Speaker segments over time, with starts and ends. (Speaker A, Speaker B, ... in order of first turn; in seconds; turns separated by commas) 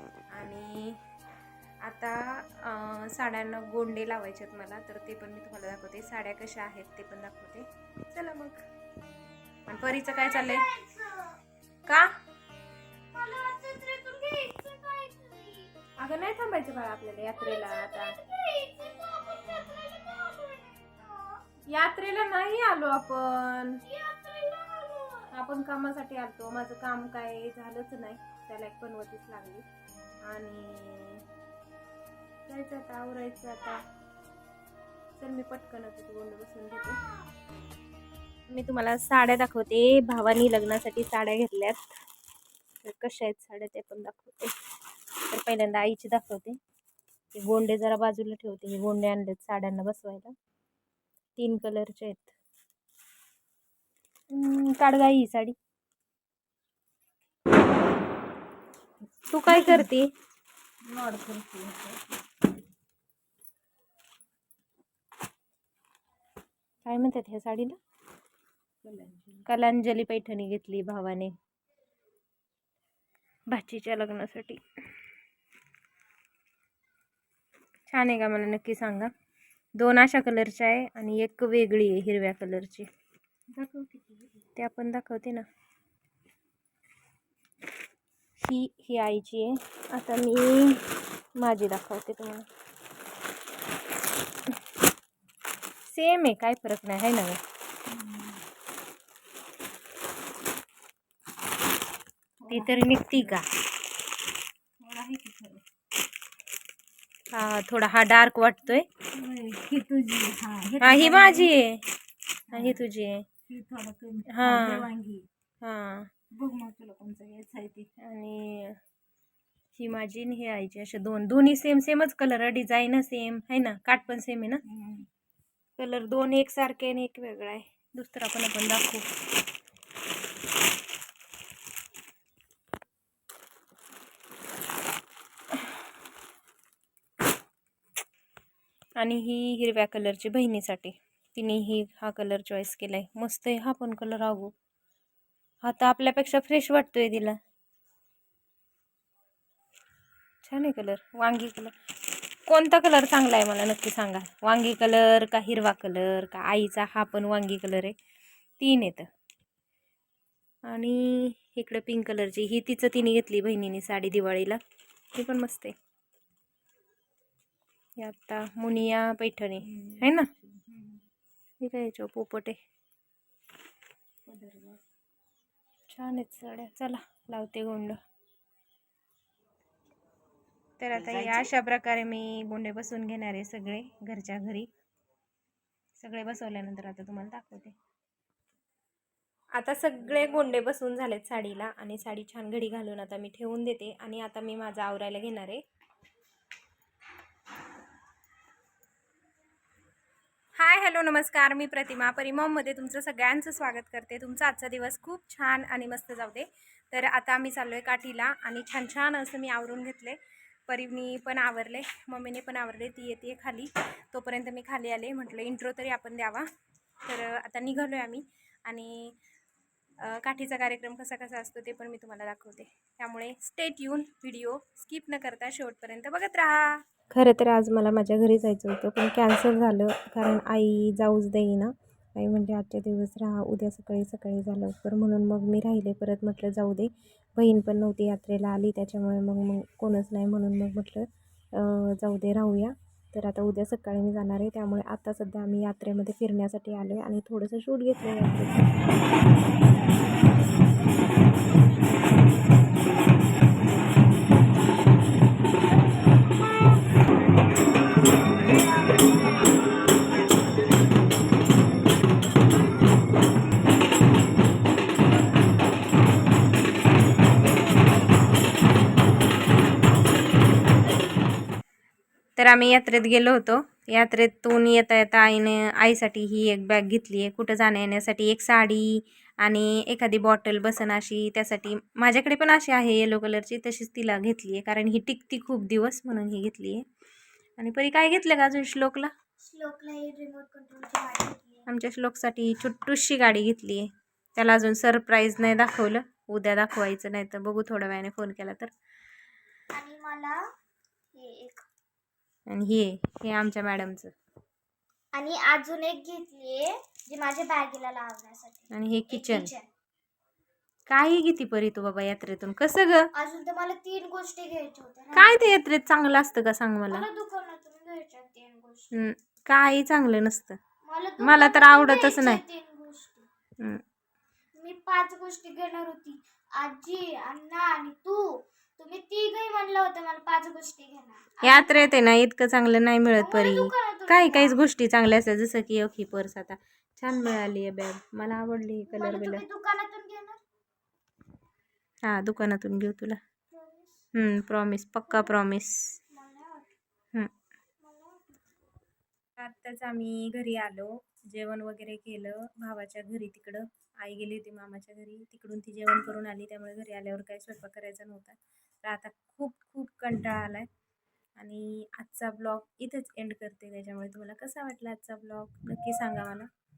Speaker A: 0.3-1.0, Speaker A: 1.8-8.6, Speaker A: 9.7-10.7, Speaker B: 9.9-11.4, Speaker A: 11.9-12.1, Speaker B: 13.1-15.7, Speaker A: 16.0-18.1, Speaker B: 17.2-21.4, Speaker A: 21.7-23.8, Speaker B: 23.8-25.3, Speaker A: 25.3-29.6, Speaker A: 30.2-31.2, Speaker A: 32.5-33.8, Speaker A: 35.2-37.0, Speaker B: 36.9-37.3, Speaker A: 38.5-42.0, Speaker A: 42.8-44.6, Speaker A: 45.2-46.6, Speaker A: 47.3-50.3, Speaker A: 51.4-52.3, Speaker A: 54.3-55.6, Speaker C: 59.0-59.9, Speaker A: 59.3-60.1, Speaker C: 60.8-62.1, Speaker A: 66.8-67.8, Speaker C: 68.8-69.5, Speaker A: 69.5-71.3, Speaker A: 73.5-74.6, Speaker A: 77.9-79.1, Speaker A: 79.8-82.9, Speaker C: 83.5-84.3, Speaker A: 84.5-85.5, Speaker A: 88.4-92.5, Speaker A: 95.9-97.4, Speaker C: 97.9-98.4, Speaker C: 102.4-103.4, Speaker A: 102.5-103.5, Speaker C: 104.8-105.6, Speaker A: 107.3-108.9, Speaker C: 109.0-111.5, Speaker A: 110.8-111.9, Speaker C: 112.5-112.8, Speaker A: 112.5-113.3, Speaker C: 113.5-115.3, Speaker A: 114.3-114.9, Speaker A: 115.6-116.1, Speaker C: 116.3-117.9, Speaker A: 118.0-118.8, Speaker A: 119.7-124.6, Speaker C: 124.7-125.1, Speaker A: 125.8-129.1, Speaker A: 139.0-144.5, Speaker A: 145.6-147.4, Speaker A: 150.4-157.9, Speaker A: 158.6-159.1, Speaker A: 160.7-164.6, Speaker A: 165.1-165.7, Speaker A: 168.0-170.3, Speaker C: 169.7-171.0, Speaker A: 171.6-172.6, Speaker C: 174.2-174.8, Speaker A: 175.9-178.0, Speaker A: 180.8-184.7, Speaker C: 180.9-181.5, Speaker A: 186.0-187.8, Speaker A: 189.6-195.6, Speaker A: 200.6-216.5, Speaker A: 217.0-219.2, Speaker A: 220.0-248.7, Speaker A: 272.4-286.8, Speaker A: 287.6-289.1, Speaker B: 289.4-291.6, Speaker A: 291.7-298.7, Speaker B: 299.7-300.4, Speaker B: 301.1-301.6, Speaker A: 302.5-304.1, Speaker B: 305.1-309.7, Speaker A: 308.7-309.5, Speaker A: 310.9-313.1, Speaker B: 313.1-315.5, Speaker A: 315.1-317.1, Speaker B: 316.9-319.0, Speaker A: 318.9-320.6, Speaker B: 320.8-323.3, Speaker A: 321.2-322.4, Speaker B: 324.6-331.9, Speaker A: 331.4-339.4, Speaker B: 333.2-334.6, Speaker B: 338.9-340.4, Speaker A: 342.0-343.2, Speaker B: 343.5-344.1, Speaker A: 344.1-346.0, Speaker B: 345.1-345.4, Speaker B: 346.1-346.7, Speaker B: 347.8-348.4, Speaker A: 349.4-360.7, Speaker A: 361.4-366.5